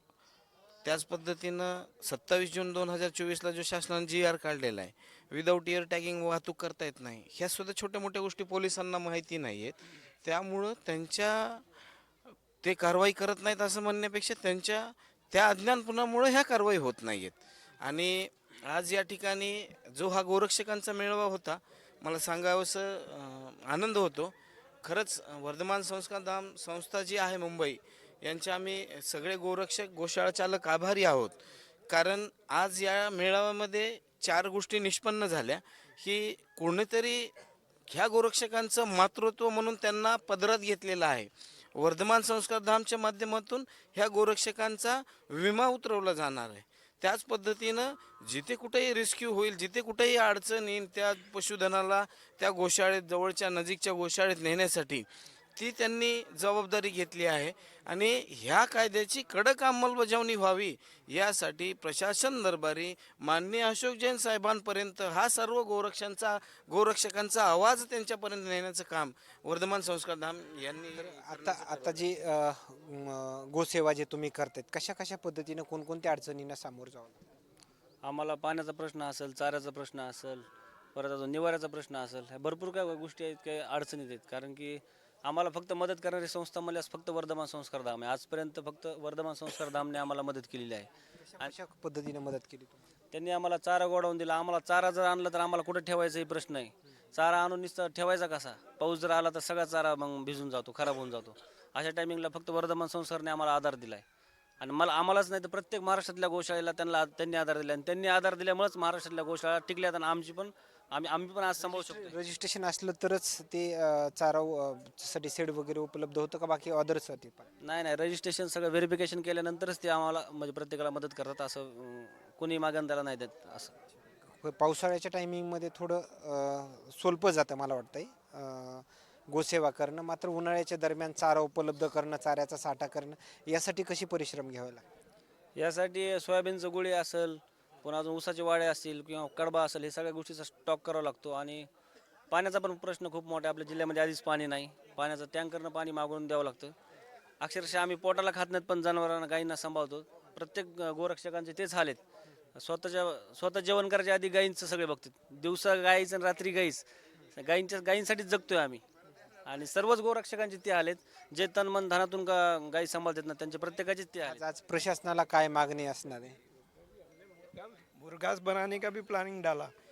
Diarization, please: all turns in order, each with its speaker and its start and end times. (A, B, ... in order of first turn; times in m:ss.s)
0:00.8-0:11.6 A
0:12.6-0:31.4 A
0:31.9-0:37.3 A
0:37.9-0:55.0 A
0:55.6-1:12.0 A
1:11.0-1:17.2 B
1:18.0-1:30.9 C
1:31.2-1:32.8 B
1:33.1-1:44.0 C
1:44.6-1:52.1 C
1:51.6-1:57.5 B
1:57.6-2:03.7 C
2:04.4-2:14.8 B
2:15.6-2:21.7 C
2:22.3-2:26.7 C
2:27.4-2:32.0 C
2:32.6-2:36.8 C
2:37.4-2:38.8 C
2:39.5-2:44.4 C
2:44.2-2:46.4 B
2:47.6-2:49.7 D